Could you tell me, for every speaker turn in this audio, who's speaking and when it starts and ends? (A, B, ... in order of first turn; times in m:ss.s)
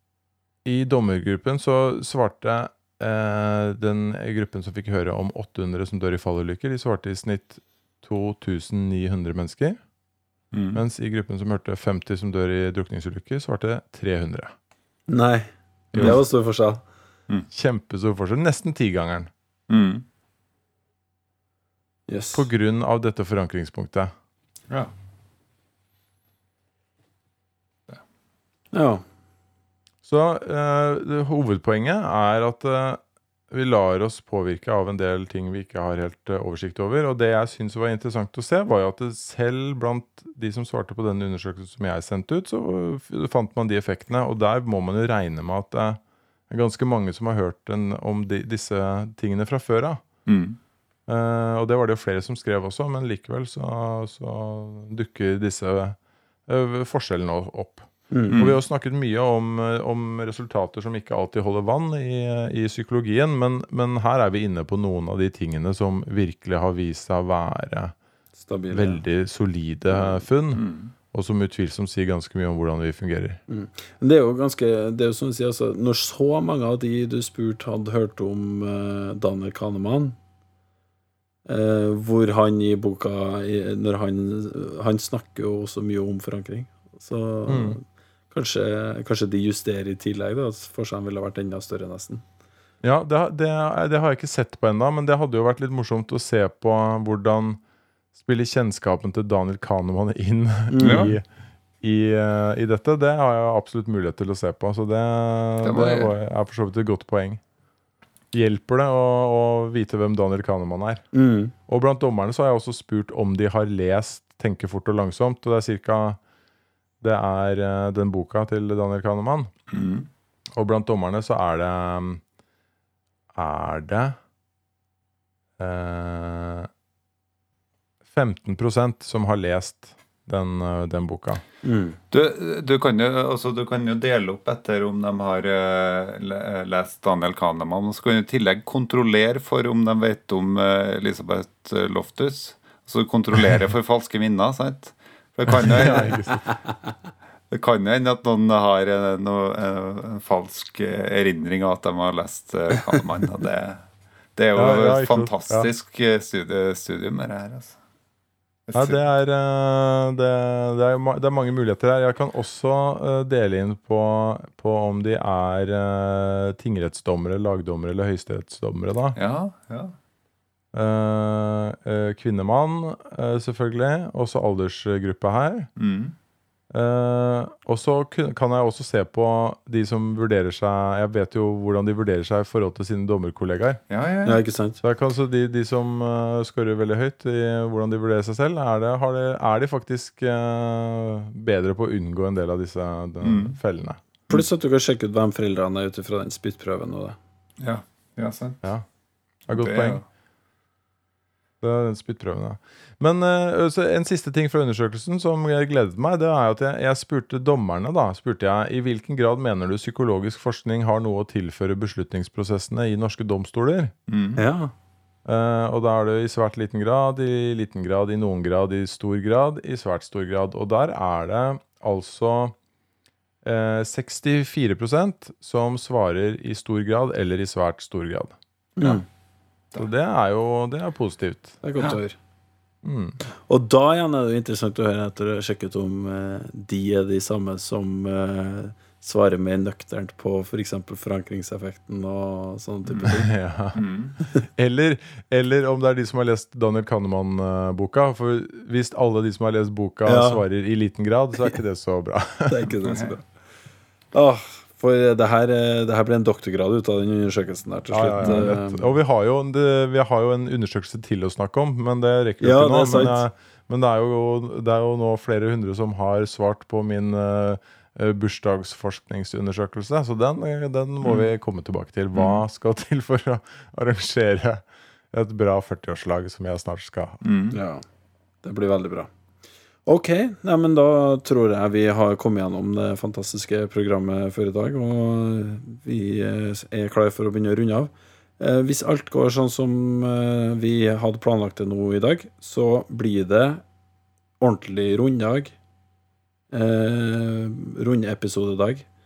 0:00.6-0:09.8 A
0:10.5-0:10.8 B
0:10.7-0:14.5 A
0:15.1-0:16.8 C
0:17.5-0:19.3 A
0:19.7-0:20.0 B
0:22.1-0:22.5 C
0:22.3-0:24.1 A
0:28.7-0:29.0 C
0:30.0-0:33.0 A
0:33.5-0:50.0 A
0:50.2-0:50.6 B
0:51.1-1:07.9 A
0:58.1-0:58.5 C
0:58.3-0:58.6 B
1:08.4-1:09.0 C
1:08.7-1:13.4 A
1:09.9-1:10.2 C
1:10.6-1:10.9 B
1:13.5-1:20.2 C
1:21.4-1:32.2 C
1:27.5-1:27.8 A
1:32.8-1:37.6 A
1:38.2-1:41.2 A
1:40.7-1:41.1 C
1:40.8-1:41.1 B
1:41.8-1:47.4 A
1:45.6-1:46.1 B
1:48.3-1:51.0 A
1:51.1-1:51.5 C
1:51.7-1:56.2 A
1:57.0-1:59.5 A
1:59.7-2:00.1 B
2:00.5-2:02.2 A
2:03.3-2:04.2 A
2:05.6-2:06.7 A
2:08.1-2:11.4 A
2:11.6-2:12.0 C
2:12.1-2:26.4 B
2:25.5-2:26.5 A
2:27.5-2:33.8 B
2:34.4-2:37.8 B
2:34.5-2:35.7 A
2:38.7-2:39.0 B
2:38.7-2:49.2 A
2:49.2-2:49.9 B
2:50.7-2:55.7 A
2:55.8-2:56.1 B
2:56.7-3:03.8 A
3:03.9-3:04.4 B
3:04.2-3:04.8 C
3:04.8-3:14.0 A
3:13.2-3:13.6 B
3:14.3-3:17.2 C
3:17.6-3:18.6 B
3:19.5-3:20.0 A
3:19.5-3:20.0 B
3:21.6-3:33.9 A
3:34.1-3:34.4 B
3:34.4-3:34.7 C
3:35.2-3:42.5 A
3:43.4-3:48.4 A
3:48.8-3:49.0 C
3:49.8-3:51.6 A
3:51.6-3:52.2 C
3:52.8-3:53.2 A
3:53.5-4:03.3 C
4:03.0-4:12.6 A
4:03.7-4:04.1 B
4:10.0-4:10.4 C
4:12.5-4:13.2 C
4:12.8-4:13.1 B
4:14.1-4:18.9 C
4:17.9-4:37.2 A
4:18.2-4:18.5 B
4:22.4-4:23.2 C
4:32.1-4:32.4 B
4:37.2-4:37.6 B
4:37.5-4:37.8 C
4:38.4-4:39.1 C
4:39.8-4:53.6 C
4:54.4-4:55.5 C
4:56.5-4:58.8 C